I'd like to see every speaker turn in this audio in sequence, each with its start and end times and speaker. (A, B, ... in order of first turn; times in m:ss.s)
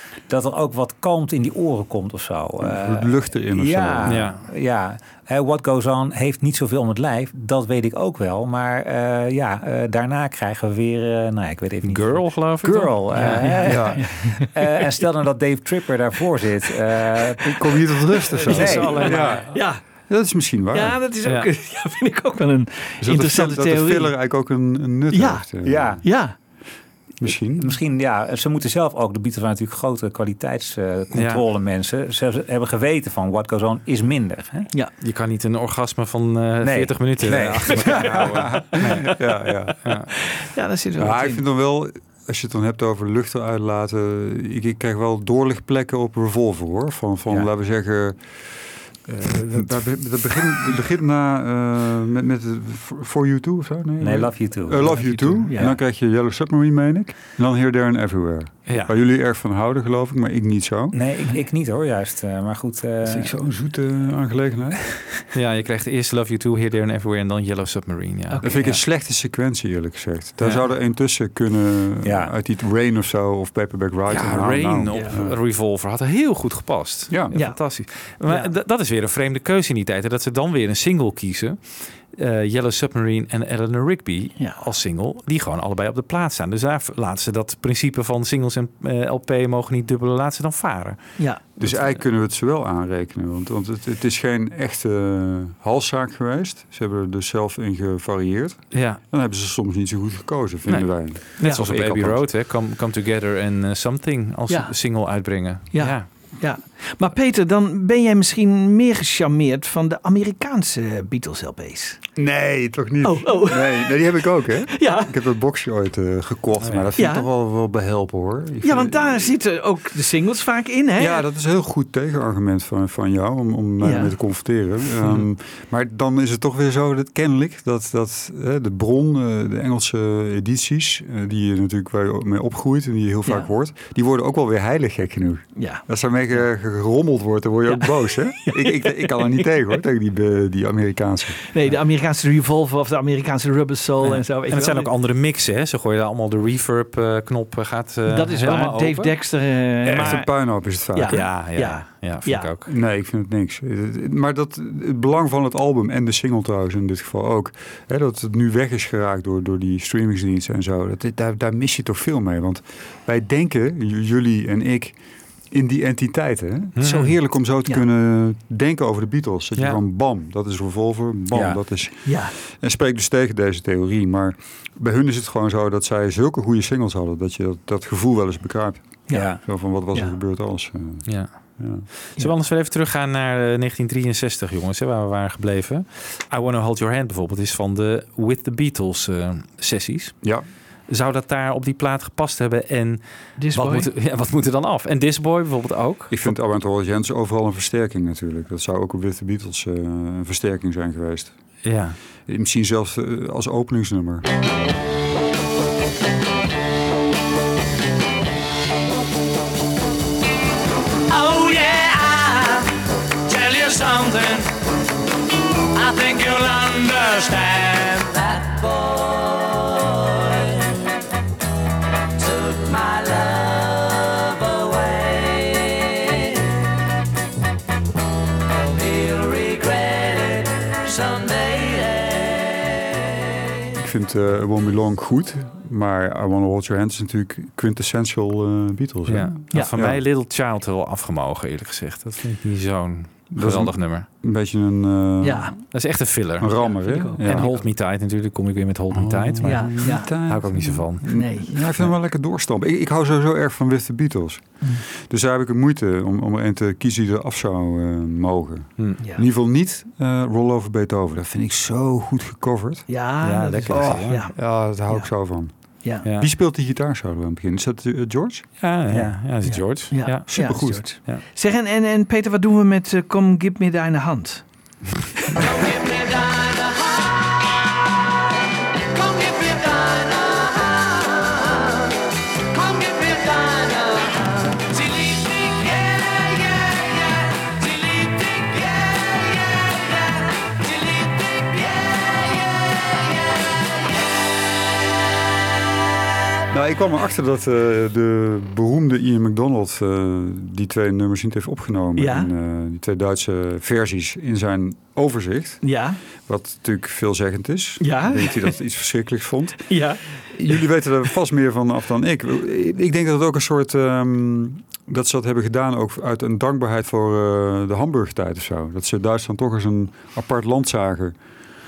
0:00.3-0:17.7 A
0:02.6-0:04.2 B
0:04.0-0:04.4 C
0:11.8-0:13.8 C
0:13.2-0:14.4 D
0:13.6-0:14.0 B
0:17.5-0:21.0 B
0:18.3-0:19.8 D
0:18.4-0:19.4 A
0:18.5-0:19.5 C
0:20.7-0:24.1 D
0:23.0-0:26.0 B
0:25.1-0:25.5 D
0:25.6-0:26.0 A
0:26.0-0:26.3 D
0:27.2-0:27.8 B
0:27.6-0:34.7 A
0:31.1-0:31.4 C
0:35.0-0:38.8 C
0:36.6-0:39.0 A
0:37.9-0:39.9 B
0:38.8-0:39.1 D
0:39.8-0:40.1 C
0:40.2-0:41.4 D
0:41.0-0:48.4 B
0:49.0-1:01.0 B
0:54.0-0:55.8 A
0:54.8-0:55.8 D
0:58.7-0:58.9 C
1:00.9-1:03.3 A
1:03.0-1:05.0 B
1:05.3-1:08.4 C
1:08.3-1:08.8 D
1:08.4-1:15.4 B
1:12.0-1:12.3 A
1:14.1-1:31.0 C
1:17.1-1:17.3 B
1:17.3-1:17.6 D
1:31.2-1:31.4 D
1:31.6-1:42.2 B
1:31.6-1:31.9 C
1:38.7-1:39.0 C
1:40.7-1:46.1 C
1:44.5-1:44.7 D
1:45.7-1:52.0 D
1:52.2-1:59.3 B
1:53.0-1:55.1 D
1:56.6-1:56.9 C
1:57.0-1:57.3 D
1:58.6-2:01.2 D
2:01.0-2:21.4 B
2:03.8-2:04.1 D
2:15.6-2:16.5 D
2:17.6-2:19.6 D
2:21.5-2:24.9 D
2:24.0-2:29.2 C
2:28.1-2:32.5 D
2:29.8-2:31.2 B
2:31.1-2:32.7 C
2:32.6-2:45.0 B
2:45.5-3:01.0 B
2:46.8-2:47.2 C
2:51.3-2:51.6 A
2:52.0-2:52.3 D
2:59.1-3:00.1 D
2:59.1-2:59.4 A
3:01.0-3:10.2 C
3:01.6-3:01.8 B
3:10.9-3:16.4 C
3:13.4-3:13.9 D
3:16.1-3:21.4 B
3:21.6-3:22.0 C
3:22.3-3:24.2 B
3:31.1-3:34.5 E
3:35.7-3:40.8 E
3:42.2-3:46.6 E
3:48.6-3:52.9 E
3:53.8-4:00.0 B
3:59.1-4:04.1 C
4:03.3-4:05.6 B
4:05.2-4:05.5 D
4:05.7-4:11.1 C
4:06.4-4:07.6 B
4:06.8-4:07.6 D
4:08.9-4:22.8 B
4:09.4-4:10.2 D
4:11.1-4:11.6 D
4:22.9-4:24.4 D
4:23.2-4:24.2 C
4:23.7-4:25.5 B
4:26.0-4:26.3 C
4:26.1-4:28.5 B
4:28.6-4:31.2 C
4:28.9-4:29.2 A
4:29.4-4:34.4 D
4:30.3-4:30.8 B
4:35.3-4:37.7 E
4:38.9-4:53.6 E
4:56.5-5:05.7 B
5:02.0-5:02.3 D
5:05.6-5:06.0 D
5:06.3-5:09.8 B
5:07.8-5:08.6 D
5:09.7-5:10.6 D
5:10.3-5:21.2 B